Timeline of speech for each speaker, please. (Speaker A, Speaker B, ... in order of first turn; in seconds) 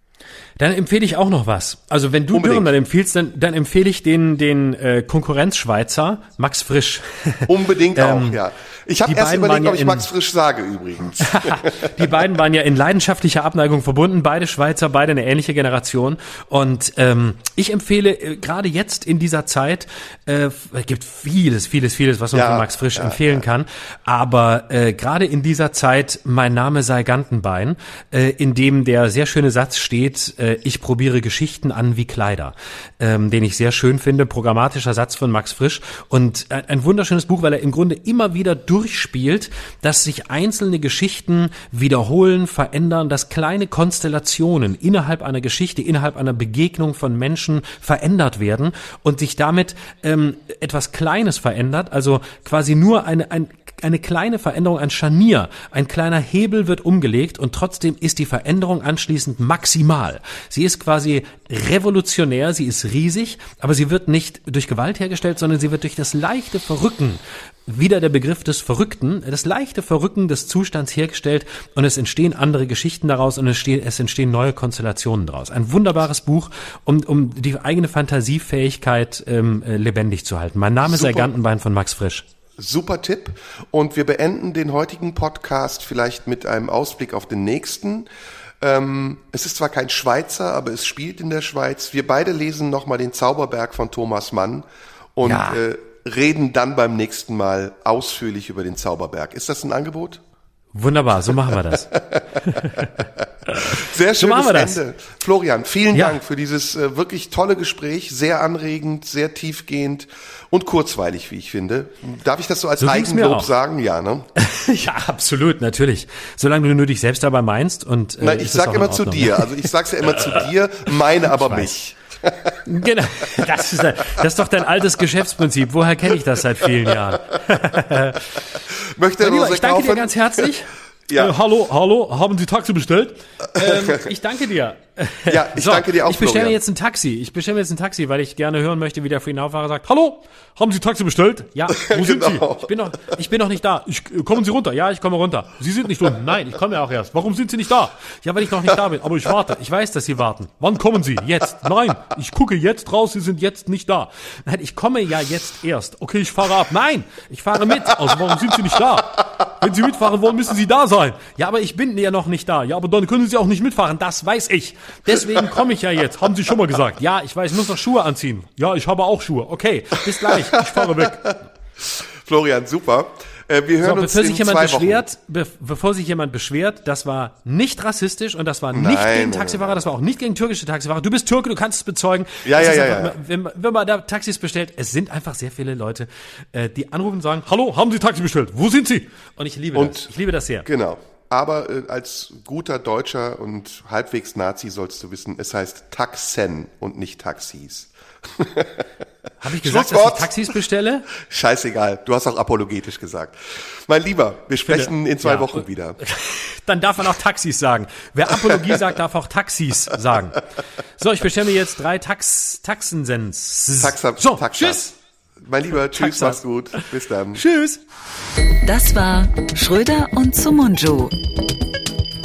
Speaker A: 0.6-8.4, 9.1-10.1, 11.2-82.3, 95.2-95.6, 100.7-104.8, 112.8-113.5, 114.4-119.7, 121.3-121.7, 122.7-128.4, 129.2-171.4, 173.8-190.7, 199.4-201.1, 204.6-214.9, 215.9-216.4, 217.3-217.8
Speaker B: 2.3-2.7, 7.5-12.1, 22.3-23.4, 80.9-81.3, 82.6-88.1, 88.6-100.2, 102.1-102.8, 103.5-114.3, 118.2-122.5, 128.7-130.5, 131.1-131.3, 133.6-134.1, 135.3-136.6, 141.7-143.2, 170.2-175.0, 178.7-179.9, 182.4-183.2, 189.8-190.1, 190.7-198.9, 199.6-200.5, 201.2-206.0, 208.5-208.8, 213.8-214.9, 215.4-217.4
Speaker C: 218.6-221.2